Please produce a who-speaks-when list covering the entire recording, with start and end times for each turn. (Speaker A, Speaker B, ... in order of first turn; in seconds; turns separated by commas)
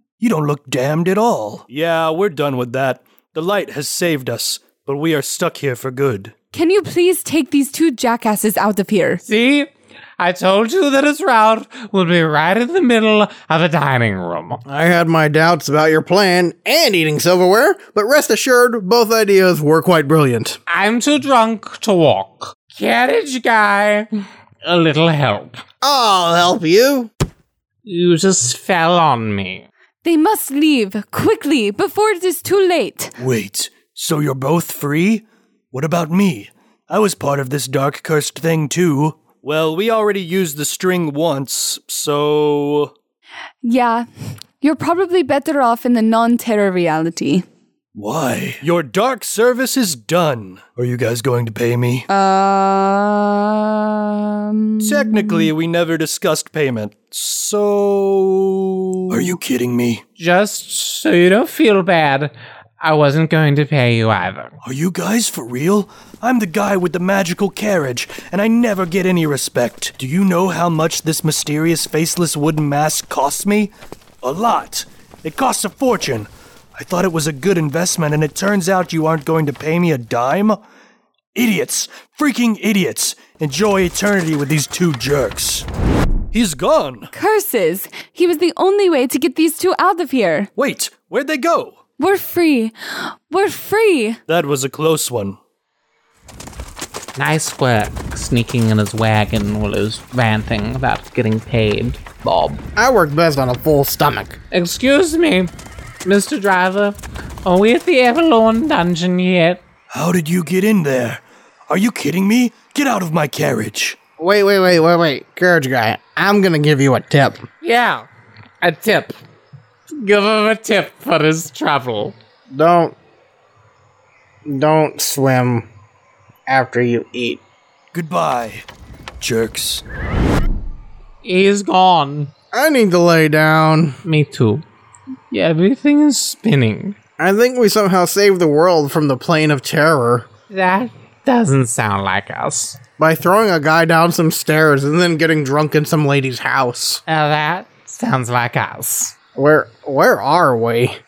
Speaker A: 0.2-6.3, Speaker B: 6.5-9.2, Speaker C: 9.2-14.6, Speaker D: 14.6-20.6, Speaker C: 20.7-24.1, Speaker C: 24.6-25.6, Speaker D: 25.8-27.1, Speaker C: 27.8-29.7, Speaker B: 30.0-33.1, Speaker A: 33.2-42.9, Speaker B: 43.6-44.1, Speaker B: 44.6-47.4, Speaker A: 47.9-52.0, Speaker B: 52.1-55.5, Speaker A: 54.8-60.0, Speaker C: 60.2-64.5, Speaker A: 64.6-80.6, Speaker A: 81.3-85.7, Speaker A: 86.3-87.1, Speaker B: 87.1-90.5, Speaker A: 90.5-91.8, Speaker B: 92.0-94.2, Speaker A: 94.3-95.4, Speaker C: 97.2-102.6, Speaker D: 102.8-104.4, Speaker C: 104.5-105.5, Speaker C: 106.0-109.6, Speaker A: 109.9-114.0, Speaker D: 114.2-117.5, Speaker C: 117.6-118.1, Speaker C: 118.6-119.2, Speaker C: 119.9-122.1, Speaker D: 122.5-122.9, Speaker D: 124.5-125.7, Speaker D: 126.5-127.4, Speaker A: 127.9-128.6, Speaker A: 129.2-129.8, Speaker C: 131.2-132.3, Speaker D: 132.5-134.0, Speaker C: 134.0-134.6, Speaker C: 135.3-136.9, Speaker D: 137.2-140.3, Speaker C: 140.5-142.8, Speaker D: 143.0-147.0, Speaker C: 147.1-149.2, Speaker D: 149.3-151.0